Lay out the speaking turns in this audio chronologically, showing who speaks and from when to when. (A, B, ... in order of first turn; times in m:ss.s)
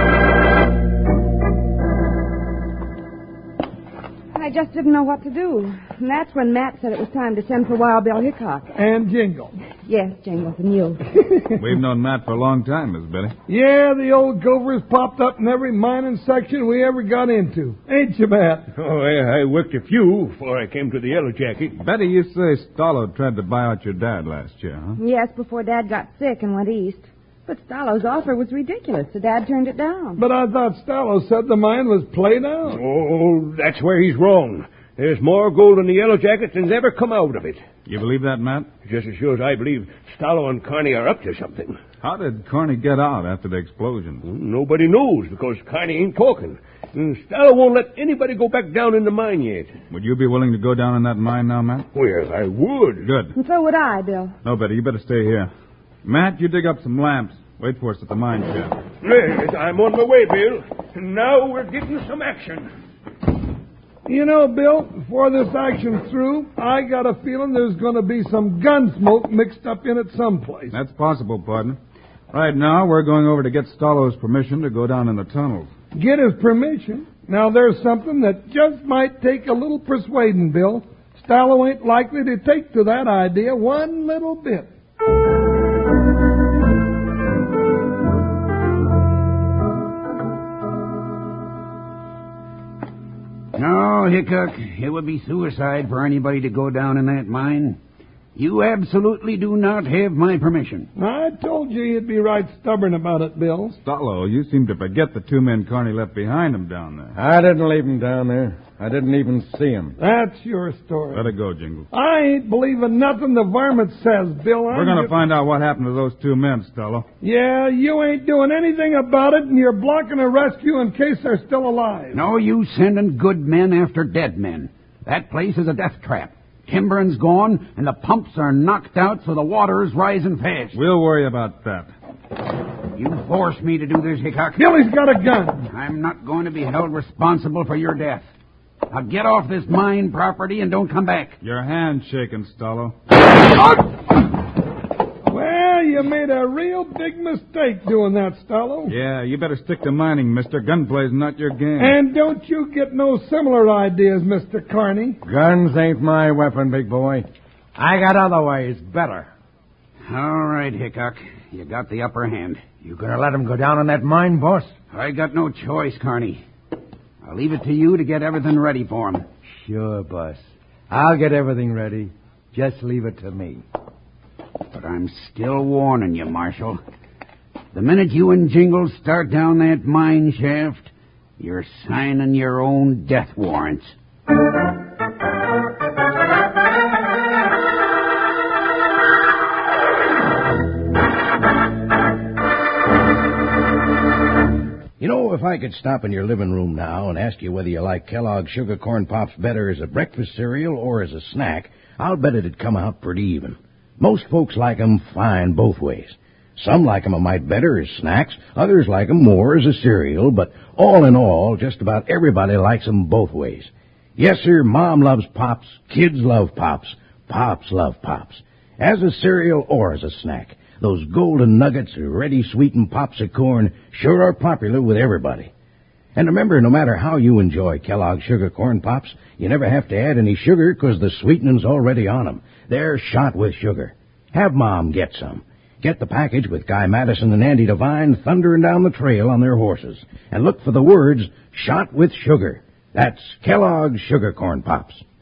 0:04.3-0:08.7 A
0:08.8-0:09.5 B
0:09.9-0:11.0 A
0:11.6-0:13.3 C
0:13.5-0:18.7 B
0:18.8-0:21.8 D
0:21.8-0:25.0 C
0:25.0-0:30.2 A
0:30.2-0:32.8 B
0:32.7-0:37.6 D
0:37.9-0:38.7 C
0:38.9-0:41.8 D
0:42.0-0:44.2 C
0:44.2-0:49.7 D
0:49.9-0:51.9 C
0:51.9-0:53.1 D
0:53.0-0:53.3 C
0:53.4-0:54.4 A
0:54.4-0:55.5 C
0:56.0-0:58.8 C
0:59.0-1:02.7 D
1:04.1-1:10.8 B
1:10.7-1:11.8 C
1:12.3-1:15.7 C
1:15.9-1:24.7 B
1:33.6-1:37.8 E
1:38.4-1:40.9 E
1:41.0-1:43.8 B
1:43.8-1:47.1 C
1:47.2-1:50.0 F
1:50.0-1:51.3 B
1:51.1-1:51.9 C
1:51.9-1:55.2 B
1:54.7-1:57.1 C
1:57.2-2:02.2 B
2:02.1-2:10.8 E
2:10.7-2:11.9 C
2:13.0-2:14.6 E
2:14.6-2:15.7 B
2:15.7-2:18.3 E
2:18.9-2:21.4 E
2:21.4-2:23.0 C
2:25.3-2:28.9 B
2:28.9-2:32.0 C
2:31.8-2:35.2 B
2:35.2-2:39.3 F
2:40.1-2:42.8 E
2:42.8-2:44.7 F
2:44.9-2:46.4 E
2:47.2-2:49.3 E
2:49.6-2:53.6 F
2:54.7-2:56.8 E
2:57.7-3:03.9 E
3:15.0-3:45.5 G
3:46.2-4:05.0 G